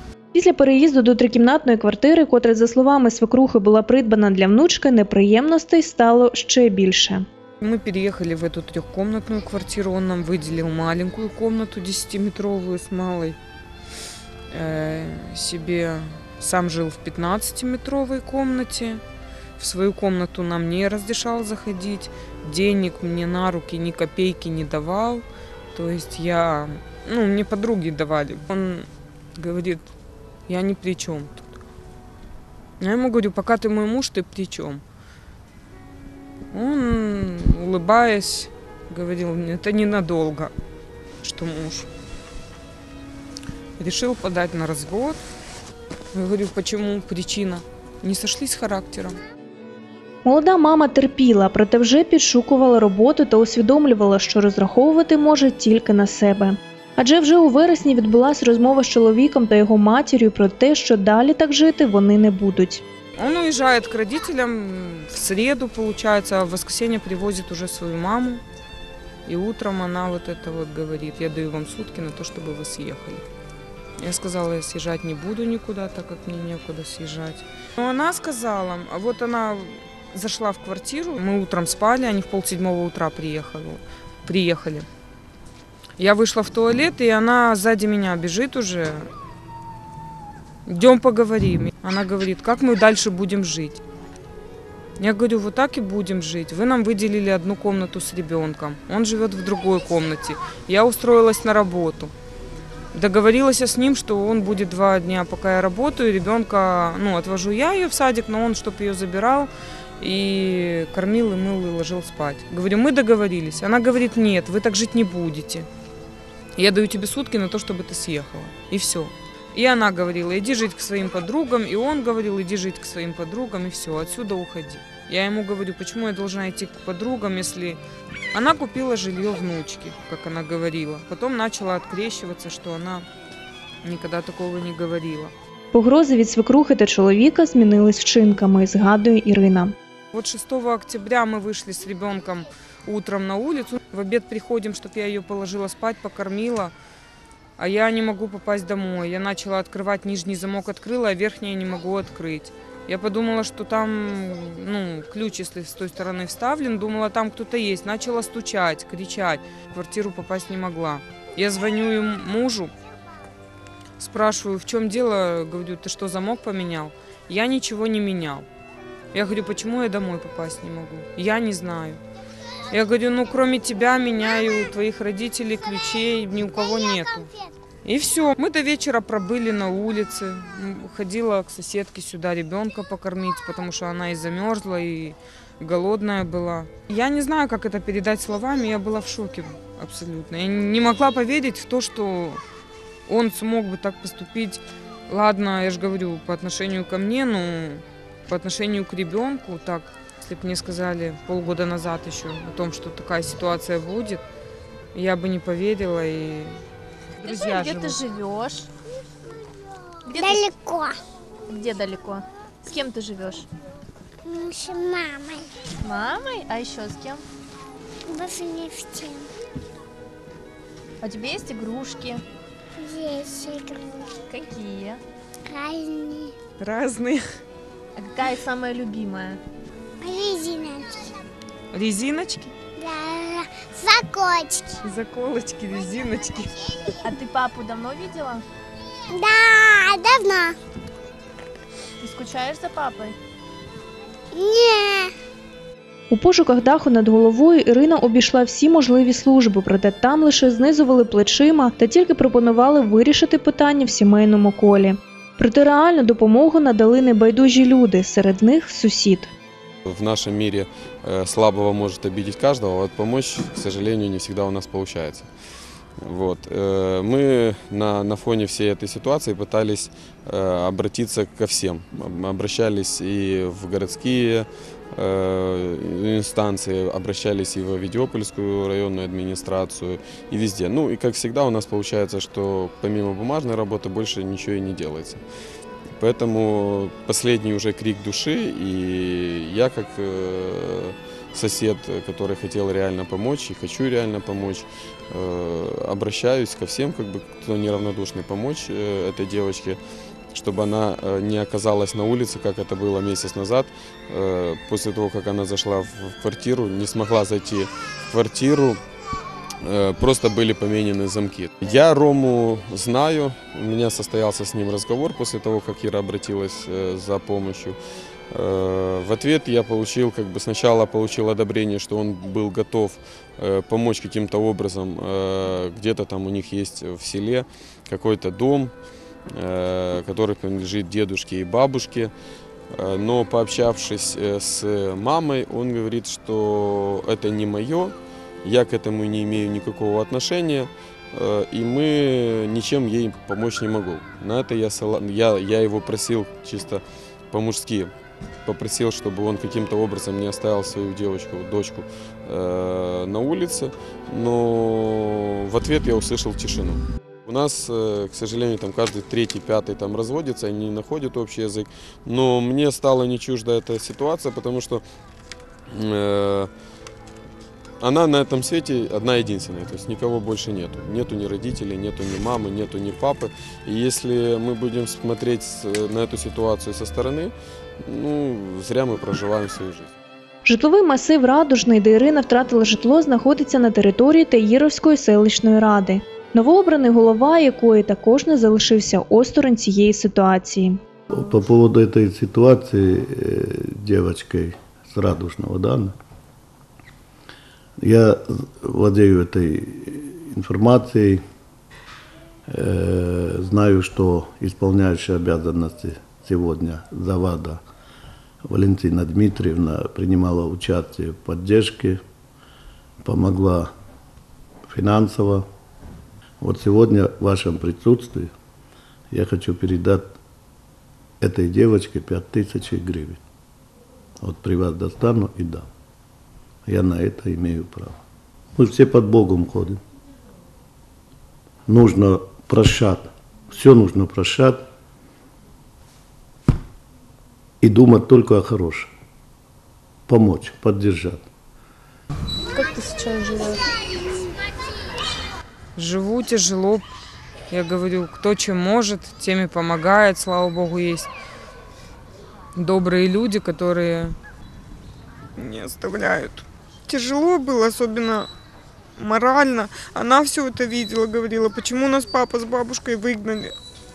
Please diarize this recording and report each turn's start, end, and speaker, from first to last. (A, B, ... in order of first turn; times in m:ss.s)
0:00.3-0:07.2 A
0:07.6-0:13.4 B
0:14.5-0:19.0 B
0:19.6-0:29.9 B
0:30.5-0:31.5 B
0:32.8-0:34.8 B
0:36.5-0:40.5 B
0:41.2-0:41.9 B
0:43.8-0:45.2 B
0:46.1-0:49.2 B
0:50.2-1:02.8 A
1:03.2-1:08.4 B
1:09.2-1:13.2 B
1:14.0-1:24.9 B
1:26.0-1:29.1 B
1:30.7-1:33.8 B
1:35.0-1:42.1 B
1:42.9-1:55.7 B
1:56.6-2:07.8 B
2:08.3-2:13.0 B
2:13.8-2:15.3 B
2:15.7-2:19.7 A
2:20.1-2:26.7 B
2:27.6-2:42.7 B
2:44.0-2:48.5 B
2:49.1-2:52.0 B
2:52.7-2:57.3 B
2:57.8-3:12.4 B
3:13.1-3:24.2 B
3:24.9-3:26.6 B
3:27.2-3:28.0 B
3:27.2-3:28.7 C
3:30.0-3:30.5 C
3:30.2-3:31.0 D
3:31.5-3:33.5 C
3:34.2-3:35.5 D
3:35.7-3:37.2 C
3:38.1-3:39.3 D
3:41.0-3:42.2 C
3:42.8-3:44.2 D
3:44.2-3:45.0 C
3:45.4-3:46.3 D
3:46.6-3:47.2 B
3:48.0-3:49.4 C
3:50.0-3:51.1 D
3:51.7-3:52.6 B
3:52.8-3:54.8 D
3:54.8-3:56.6 B
3:57.0-3:58.4 C
3:59.1-4:00.6 D
4:02.0-4:03.2 C
4:04.3-4:05.1 D
4:06.1-4:19.3 A
4:19.8-4:25.3 E
4:26.0-4:45.2 E
4:46.0-4:59.8 E
5:00.3-5:08.8 E
5:09.6-5:17.8 E
5:18.3-5:28.7 E
5:29.3-5:32.1 E
5:32.7-5:47.9 E
5:48.4-6:04.8 E
6:05.7-6:06.5 E
6:07.8-6:17.3 E
6:17.8-6:20.0 E
6:20.4-6:30.8 A
6:31.1-6:35.9 F
6:37.8-6:41.2 F
6:42.5-6:47.6 F
6:48.4-6:52.0 F
6:53.0-6:53.7 F
6:54.7-6:55.4 F
6:56.4-6:58.3 F
6:59.1-7:00.1 F
7:01.2-7:03.2 F
7:04.2-7:05.7 F
7:06.6-7:08.0 F
7:08.6-7:09.8 F
7:11.7-7:14.6 F
7:17.6-7:18.9 F
7:20.1-7:21.2 F
7:22.5-7:23.7 B
7:25.8-7:26.9 B
7:27.5-7:31.1 B
7:32.5-7:34.2 B
7:35.4-7:38.3 B
7:39.0-7:43.5 B